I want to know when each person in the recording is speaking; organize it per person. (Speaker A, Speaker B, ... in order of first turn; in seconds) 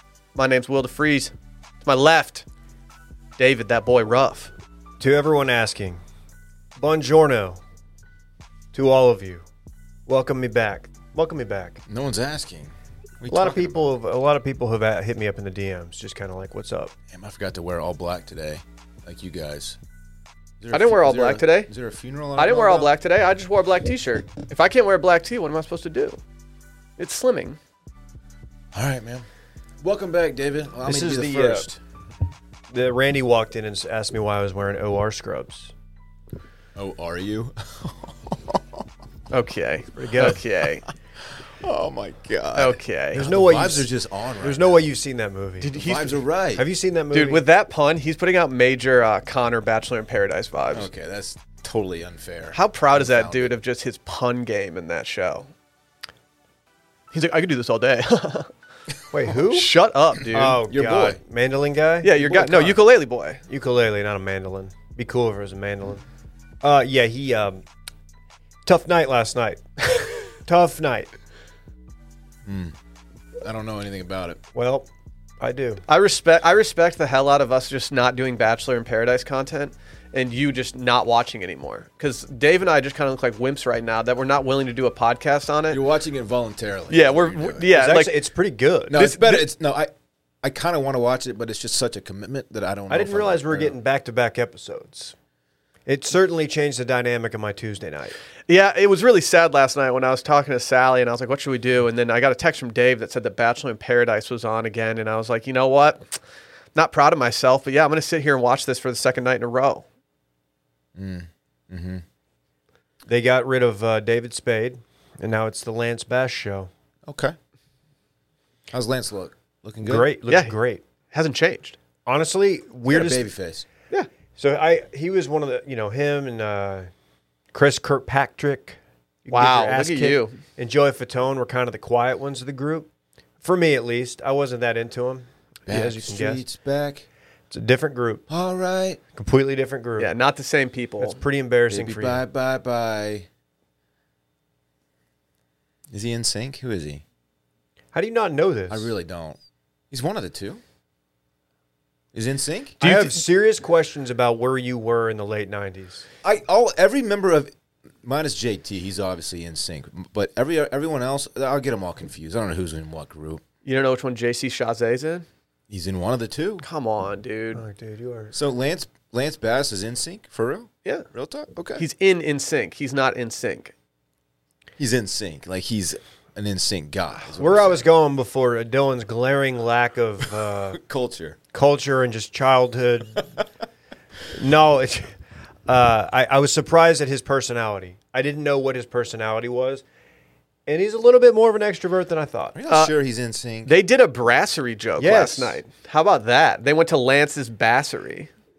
Speaker A: 0.3-1.3, 1.8-2.4, 3.4-4.5, 20.7-21.7, 22.4-26.2, 27.0-27.6, 39.3-40.8, 42.5-43.3, 45.6-46.2, 47.1-50.9, 52.5-55.5, 57.1-58.5, 59.3-60.6, 62.0-63.4, 75.9-85.8, 86.9-88.1, 88.9-89.5, 98.5-106.1, 106.7-109.8, 120.3-120.5, 121.1-121.8, 129.3-130.4, 140.0-141.2, 152.8-153.2, 163.6-165.2, 166.6-167.6, 171.8-173.7, 192.7-192.9, 193.7-198.3
Speaker B: 5.0-6.0, 6.8-7.6, 8.7-9.4, 10.1-11.8, 13.3-16.9, 30.8-31.7, 32.7-35.7, 40.0-40.4, 43.1-43.9, 44.4-45.8, 46.5-47.4, 59.1-59.7, 60.3-62.7, 63.5-66.0, 66.6-67.6, 68.6-71.1, 74.5-74.9, 75.4-75.8, 87.7-89.0, 92.9-95.1, 95.8-98.1, 113.1-116.7, 119.8-120.8, 122.0-123.2, 124.3-126.9, 127.5-132.9, 133.4-136.4, 137.5-138.2, 139.1-140.1, 141.0-142.2, 147.9-148.9, 152.8-156.1, 167.5-168.3, 177.3-180.8, 181.5-183.3, 184.3-185.1, 185.7-189.8, 190.7-192.6, 195.0-195.6
Speaker C: 11.9-13.8, 17.1-19.8, 20.6-22.9, 28.7-29.3, 29.8-31.8, 36.8-38.8, 41.2-44.9, 45.6-46.6, 50.7-53.5, 60.6-61.2, 62.2-62.8, 72.4-72.7, 73.4-74.4, 85.7-87.7, 88.9-89.9, 90.4-93.8, 111.0-112.0, 117.1-117.3, 118.7-120.1, 122.9-123.7, 135.7-137.1, 138.3-139.0, 141.7-143.3, 145.9-147.0, 148.7-149.4, 149.9-150.6, 152.1-152.8, 156.2-157.5, 158.0-163.4, 165.7-166.6, 168.3-171.8, 174.8-177.9, 180.4-181.4, 192.5-193.7